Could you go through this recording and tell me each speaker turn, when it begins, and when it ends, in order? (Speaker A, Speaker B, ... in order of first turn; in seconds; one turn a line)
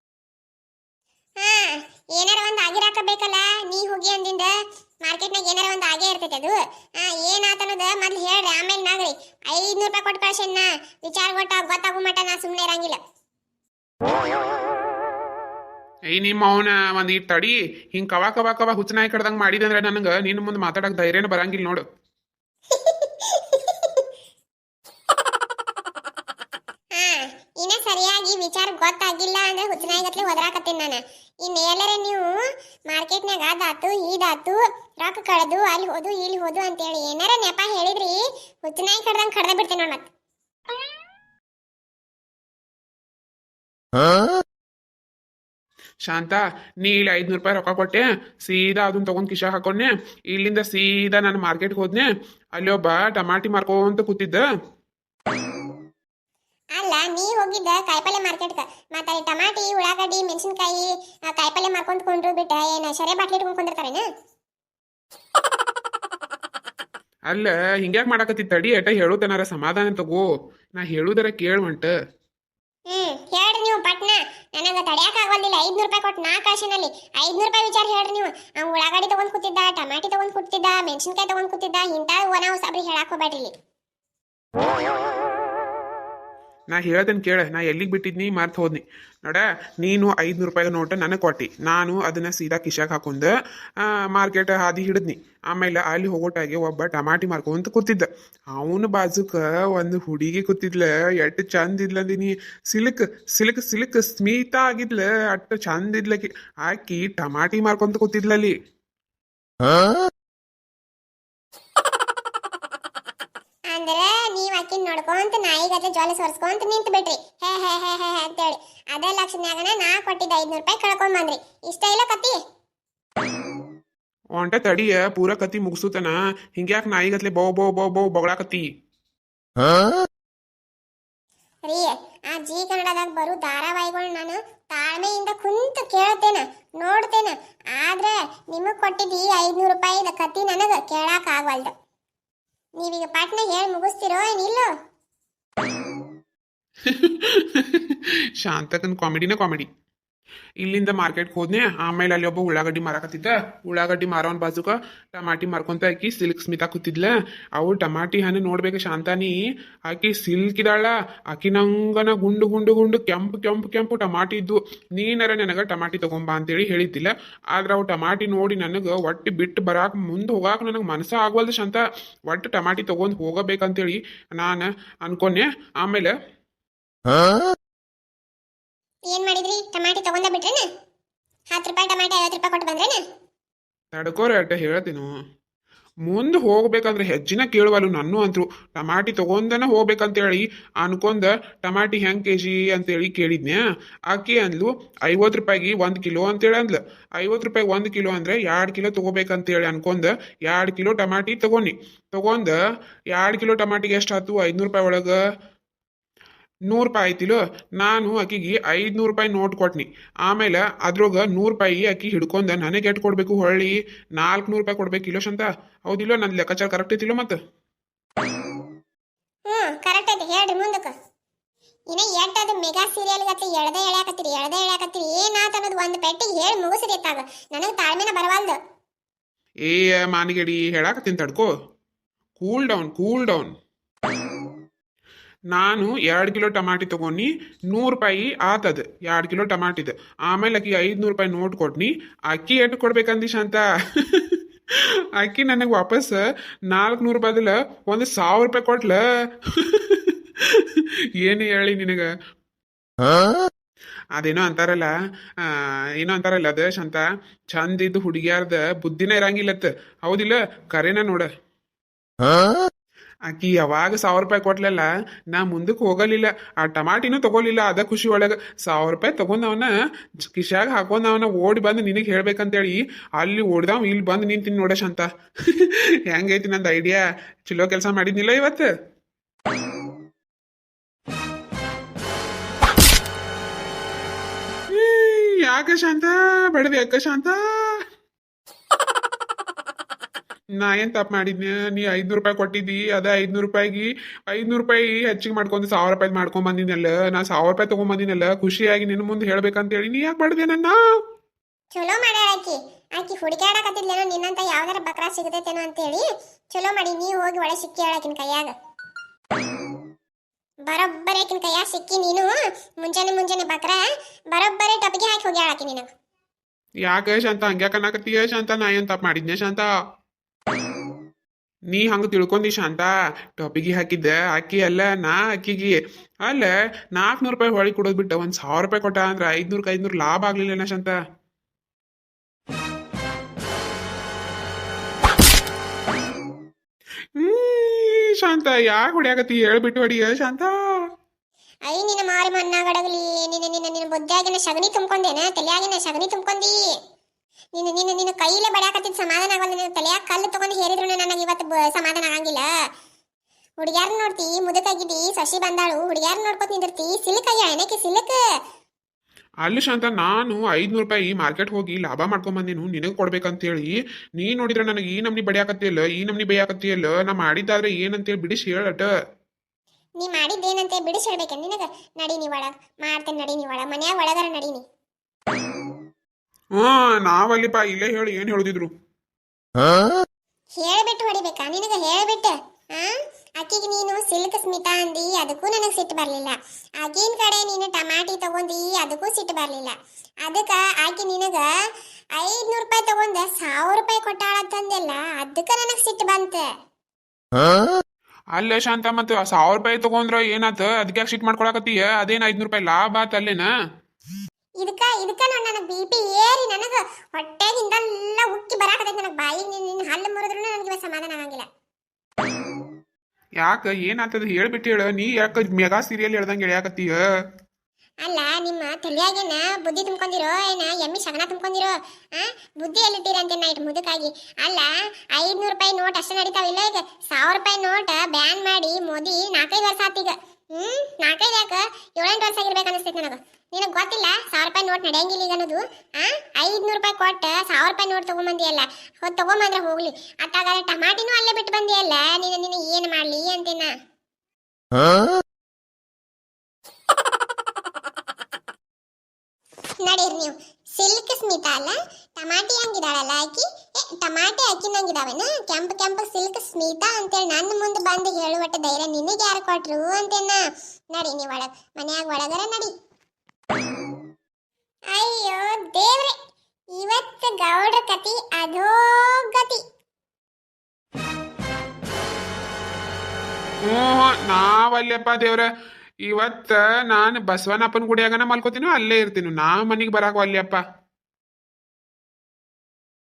Speaker A: 1.4-13.0
Speaker B: 16.1-21.8
Speaker A: 22.7-24.1
Speaker A: 26.9-40.1
Speaker B: 46.0-54.4
Speaker A: 56.7-64.1
Speaker B: 67.3-71.9
Speaker A: 72.9-83.5
Speaker B: 86.7-93.3
Speaker B: 93.8-108.5
Speaker A: 113.7-122.4
Speaker B: 124.4-128.7
Speaker A: 131.6-141.7
Speaker A: 142.8-144.7
Speaker B: 146.8-149.7
Speaker B: 150.6-159.3
Speaker B: 159.9-176.1
Speaker A: 179.1-180.7
Speaker A: 181.5-183.0
Speaker B: 183.9-185.1
Speaker B: 186.1-202.6
Speaker B: 203.1-205.2
Speaker B: 206.7-217.4
Speaker A: 219.5-220.9
Speaker A: 221.9-228.6
Speaker B: 229.7-231.5
Speaker B: 232.4-233.5
Speaker B: 235.5-244.4
Speaker B: 245.2-252.1
Speaker B: 254.2-257.0
Speaker B: 257.5-261.3
Speaker B: 263.3-269.7
Speaker B: 270.2-278.7
Speaker B: 284.7-287.8
Speaker B: 290.6-300.8
Speaker A: 301.7-308.5
Speaker A: 310.6-315.9
Speaker B: 316.8-319.7
Speaker B: 321.7-331.0
Speaker B: 337.2-340.8
Speaker A: 341.7-346.7
Speaker A: 347.5-352.5
Speaker A: 353.6-358.2
Speaker B: 359.4-368.9
Speaker A: 370.0-374.6
Speaker B: 376.6-378.7
Speaker A: 380.6-391.5
Speaker A: 392.1-396.5
Speaker B: 398.4-403.5
Speaker A: 404.6-411.4
Speaker B: 413.4-417.0
Speaker A: 418.0-443.7
Speaker A: 449.8-462.7
Speaker A: 464.9-466.1
Speaker A: 466.7-469.6
Speaker B: 473.6-475.5
Speaker B: 476.1-480.6